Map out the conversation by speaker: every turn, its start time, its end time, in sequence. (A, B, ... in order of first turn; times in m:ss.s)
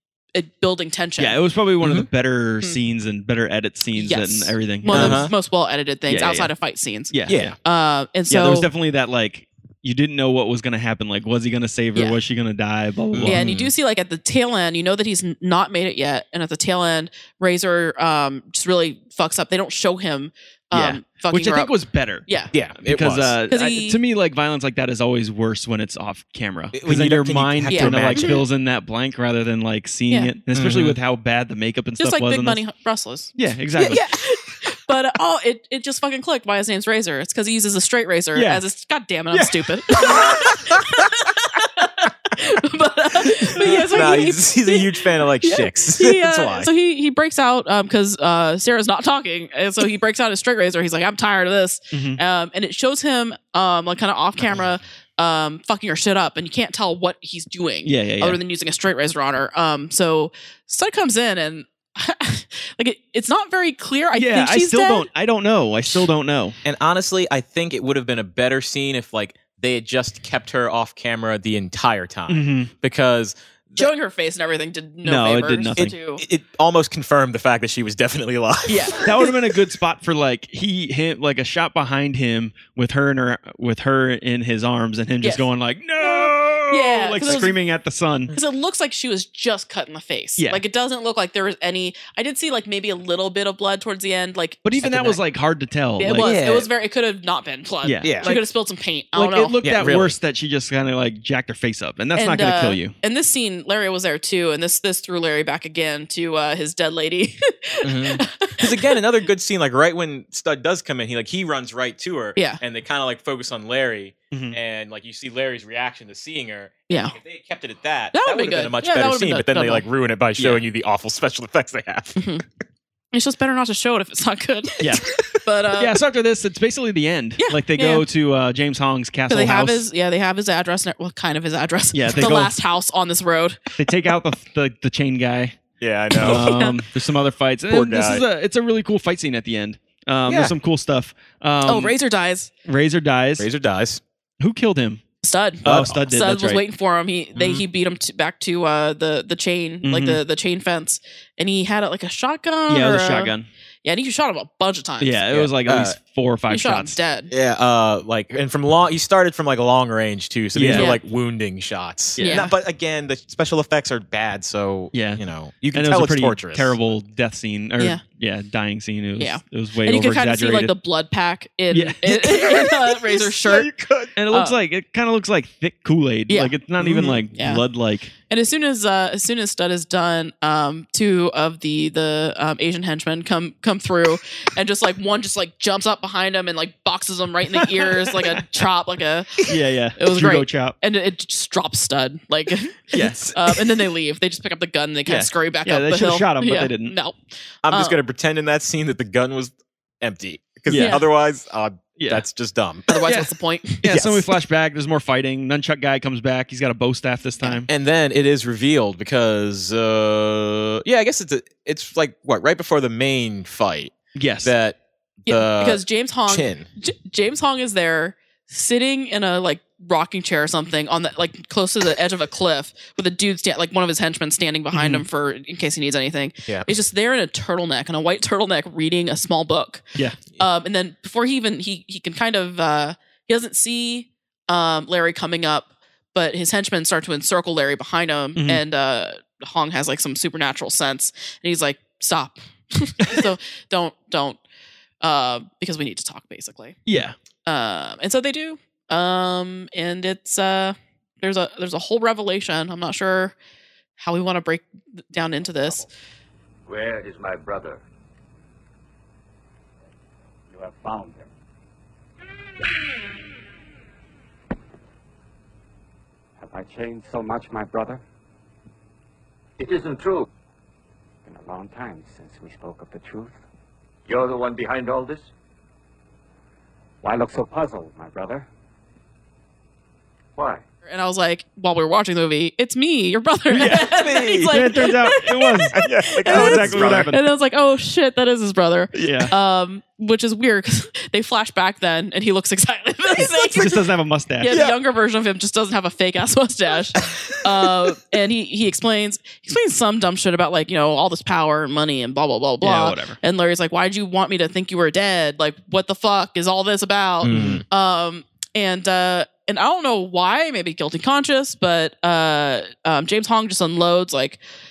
0:00.3-0:01.4 A
0:01.2-0:05.3 B
0:01.8-0:02.1 C
0:03.9-0:08.7 A
0:04.9-0:05.3 C
0:06.1-0:06.5 B
0:07.1-0:07.5 B
0:07.3-0:07.5 C
0:08.3-0:13.5 B
0:13.1-0:13.7 C
0:13.2-0:21.7 A
0:20.7-0:22.2 B
0:22.2-0:22.5 A
0:22.5-0:23.3 C
0:22.8-0:32.6 B
0:23.5-0:24.0 A
0:26.7-0:28.4 C
0:27.7-0:28.4 A
0:30.5-0:31.0 C
0:32.0-0:33.3 A
0:33.4-0:34.0 B
0:33.9-1:05.1 A
0:38.3-0:38.6 B
0:39.3-0:40.2 B
0:40.2-0:40.8 C
0:43.3-0:46.7 C
0:51.9-0:52.2 B
0:57.8-0:58.4 B
1:04.1-1:06.6 B
1:06.6-1:13.9 C
1:12.3-1:12.7 B
1:13.8-1:16.2 A
1:15.0-1:15.9 B
1:15.8-1:19.3 C
1:18.7-1:19.1 A
1:19.0-1:28.3 B
1:26.0-1:27.5 A
1:28.3-1:35.2 A
1:34.6-1:36.3 B
1:36.0-1:39.6 A
1:36.1-1:36.7 C
1:37.8-1:38.5 B
1:38.0-1:38.3 C
1:39.1-1:42.9 B
1:39.6-1:40.1 C
1:42.2-1:49.0 A
1:47.8-2:02.2 C
1:52.4-1:52.6 A
1:54.3-1:54.6 B
1:56.9-1:57.2 A
1:58.1-1:59.8 A
2:00.4-2:00.6 B
2:02.2-2:02.4 A
2:03.1-2:05.9 A
2:04.8-2:05.2 B
2:05.7-2:09.8 B
2:07.4-2:08.0 A
2:09.3-2:13.8 A
2:11.9-2:12.5 B
2:13.8-2:15.6 B
2:15.8-2:16.7 C
2:16.2-2:21.9 B
2:16.2-2:16.7 A
2:17.7-2:18.2 C
2:20.2-2:20.5 C
2:21.6-2:22.5 A
2:22.6-2:23.5 B
2:23.4-2:24.0 C
2:24.4-2:25.0 B
2:25.2-2:33.3 A
2:25.6-2:26.6 B
2:27.4-2:27.6 B
2:29.8-2:30.2 B
2:32.7-2:33.5 B
2:33.8-2:35.3 A
2:35.0-2:37.0 B
2:35.3-2:36.0 C
2:36.5-2:37.3 A
2:37.3-2:46.8 C
2:40.5-2:40.9 B
2:40.7-2:41.0 A
2:42.2-2:42.5 B
2:42.2-2:42.5 A
2:44.9-2:50.7 B
2:49.2-2:53.7 A
2:51.7-2:52.0 B
2:52.0-2:54.2 C
2:54.2-2:58.1 B
2:54.3-2:54.6 A
2:56.3-2:57.6 A
2:58.3-3:18.0 A
3:07.6-3:08.3 B
3:09.4-3:10.8 B
3:12.9-3:13.6 B
3:15.1-3:16.9 B
3:17.6-3:22.9 C
3:20.7-3:21.0 B
3:20.7-3:21.0 A
3:22.0-3:22.2 B
3:22.9-3:23.8 A
3:23.0-3:27.7 B
3:23.9-3:24.2 C
3:27.7-3:36.6 C
3:34.2-3:34.5 B
3:35.3-4:04.4 A
3:44.7-3:45.0 B
3:58.4-3:58.6 B
4:05.0-4:06.8 A
4:06.9-4:07.2 B
4:07.4-4:13.4 A
4:14.0-4:15.9 A
4:16.6-4:17.8 D
4:20.5-4:21.3 E
4:26.4-4:28.0 E
4:29.6-4:30.3 D
4:31.2-4:33.4 E
4:34.1-4:35.3 D
4:37.0-4:38.4 E
4:40.8-4:53.8 A
4:43.5-4:43.9 B
4:43.8-4:44.8 C
4:44.5-4:47.3 B
4:45.7-4:47.1 C
4:48.9-4:49.3 B
4:53.2-4:54.5 B
4:54.4-5:14.4 A
4:54.5-4:54.8 C
5:02.6-5:03.2 B
5:07.2-5:07.6 C
5:07.3-5:07.6 B